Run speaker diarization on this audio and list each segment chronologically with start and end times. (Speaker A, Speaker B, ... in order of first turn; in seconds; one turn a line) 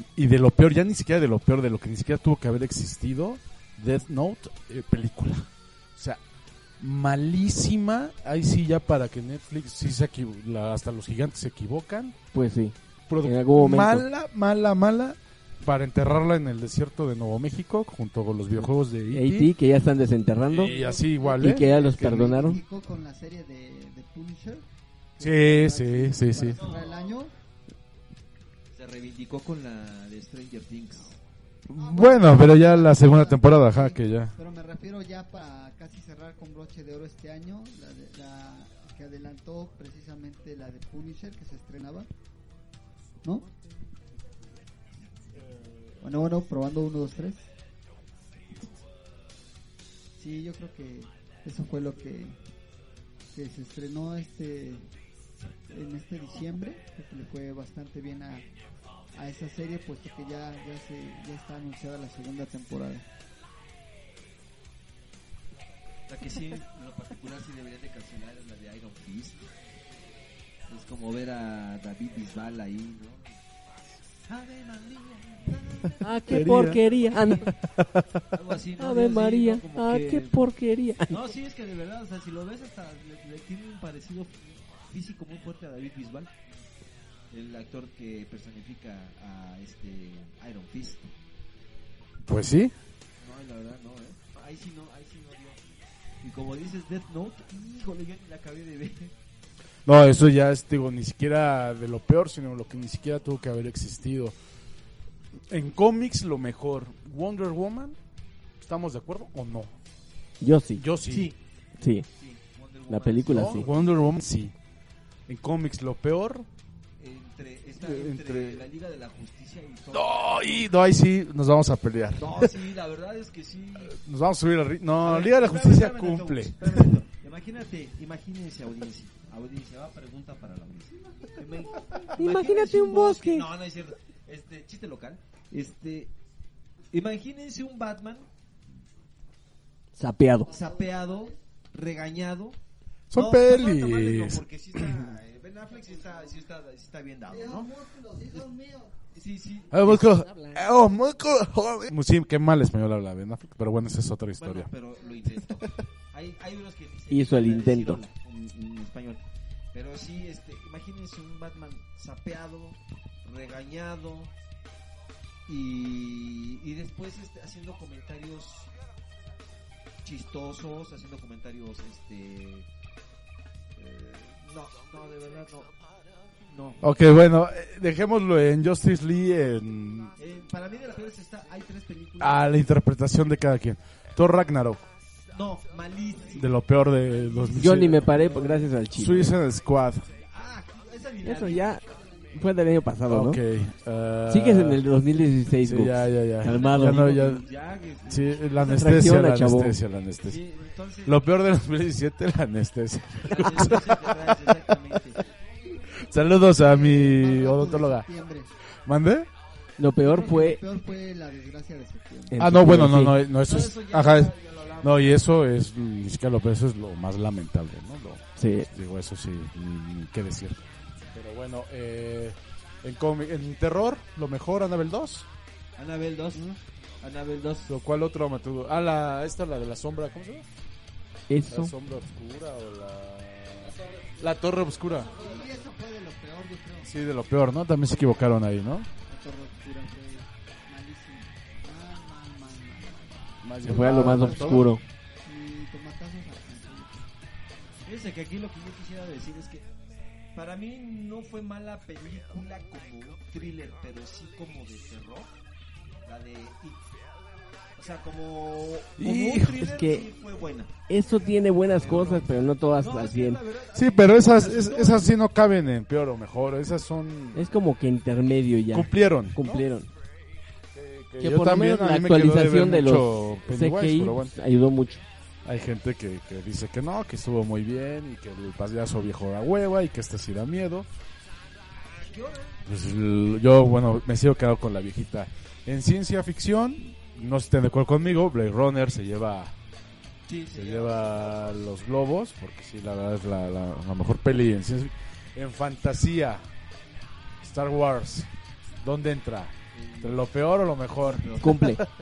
Speaker A: 0.1-6.2
Speaker A: 6.8-12.2
Speaker B: 12.3-14.1
Speaker A: 13.1-19.5
Speaker B: 19.1-20.7
Speaker A: 20.5-21.7
Speaker C: 20.7-24.6
Speaker B: 21.4-22.6
Speaker C: 25.1-27.3
Speaker A: 25.2-26.6
Speaker D: 28.7-31.2
Speaker A: 31.7-34.3
Speaker C: 31.8-42.1
Speaker C: 46.0-47.5
Speaker C: 50.2-52.4
Speaker C: 53.3-54.9
Speaker C: 55.7-58.5
Speaker C: 59.1-63.0
Speaker D: 66.1-69.5
Speaker D: 70.7-73.4
Speaker D: 74.3-77.4
Speaker B: 76.0-77.5
Speaker A: 76.3-78.0
Speaker D: 78.3-80.5
Speaker B: 78.8-81.2
Speaker D: 81.1-86.3
Speaker D: 87.3-91.1
Speaker A: 92.2-92.7
Speaker D: 93.2-95.6
Speaker D: 96.2-99.1
Speaker A: 99.8-104.3
Speaker A: 105.5-108.0
Speaker A: 108.6-109.7
Speaker B: 110.4-110.8
Speaker A: 110.8-111.3
Speaker D: 111.1-111.4
Speaker B: 111.8-112.0
Speaker D: 112.1-113.9
Speaker B: 112.9-113.7
Speaker A: 113.3-114.5
Speaker A: 115.3-116.5
Speaker D: 117.0-120.7
Speaker A: 117.8-118.7
Speaker A: 119.9-122.6
Speaker D: 122.2-124.0
Speaker A: 123.8-126.9
Speaker D: 125.0-136.1
Speaker B: 132.2-133.5
Speaker D: 136.9-138.3
Speaker B: 139.9-140.5
Speaker D: 140.5-142.6
Speaker C: 140.5-141.3
Speaker A: 143.1-145.2
Speaker D: 143.1-147.7
Speaker C: 147.3-149.0
Speaker D: 149.1-150.4
Speaker A: 149.7-154.7
Speaker D: 154.4-159.2
Speaker B: 157.1-158.0
Speaker D: 159.7-164.3
Speaker D: 165.5-168.7
Speaker D: 170.0-172.7
Speaker D: 173.8-175.8
Speaker D: 176.4-176.8
Speaker A: 176.8-180.2
Speaker D: 180.2-182.5
Speaker A: 182.2-184.8
Speaker D: 185.3-186.6
Speaker A: 186.3-188.3
Speaker D: 187.1-188.7
Speaker B: 187.5-189.3
Speaker A: 188.9-190.1
Speaker D: 190.2-191.8
Speaker B: 191.2-193.4
Speaker A: 193.1-194.8
Speaker B: 194.3-197.1
Speaker A: 195.6-197.4
Speaker D: 196.4-199.1
Speaker A: 198.1-200.4
Speaker B: 198.7-199.8
Speaker D: 200.2-201.2
Speaker A: 201.0-204.8
Speaker D: 203.2-205.2
Speaker C: 205.7-208.5
Speaker A: 206.0-208.1
Speaker A: 208.8-209.3
Speaker B: 209.8-210.6
Speaker C: 210.0-212.4
Speaker B: 212.3-213.2
Speaker A: 212.4-220.6
Speaker D: 213.4-215.2
Speaker B: 218.4-218.7
Speaker A: 221.1-225.3
Speaker D: 225.8-227.7
Speaker A: 227.7-230.4
Speaker B: 231.3-231.7
Speaker A: 231.5-235.1
Speaker C: 235.1-236.9
Speaker A: 236.8-238.9
Speaker C: 239.1-244.7
Speaker A: 243.4-244.7
Speaker B: 243.6-244.8
Speaker C: 245.2-247.1
Speaker D: 247.8-249.6
Speaker D: 250.3-255.3
Speaker D: 256.0-256.8
Speaker D: 257.8-260.7
Speaker A: 259.0-259.6
Speaker B: 259.6-260.1
Speaker B: 260.9-263.4
Speaker D: 261.8-265.1
Speaker A: 263.7-267.4
Speaker B: 267.3-269.9
Speaker A: 268.7-269.6
Speaker A: 270.7-274.3
Speaker B: 271.2-275.0
Speaker A: 275.4-280.9
Speaker D: 281.8-282.6
Speaker A: 282.6-289.6
Speaker D: 290.3-291.7
Speaker A: 290.5-296.4
Speaker A: 297.4-298.3
Speaker A: 298.8-301.8
Speaker D: 299.7-300.3
Speaker D: 301.0-301.7
Speaker B: 301.4-301.8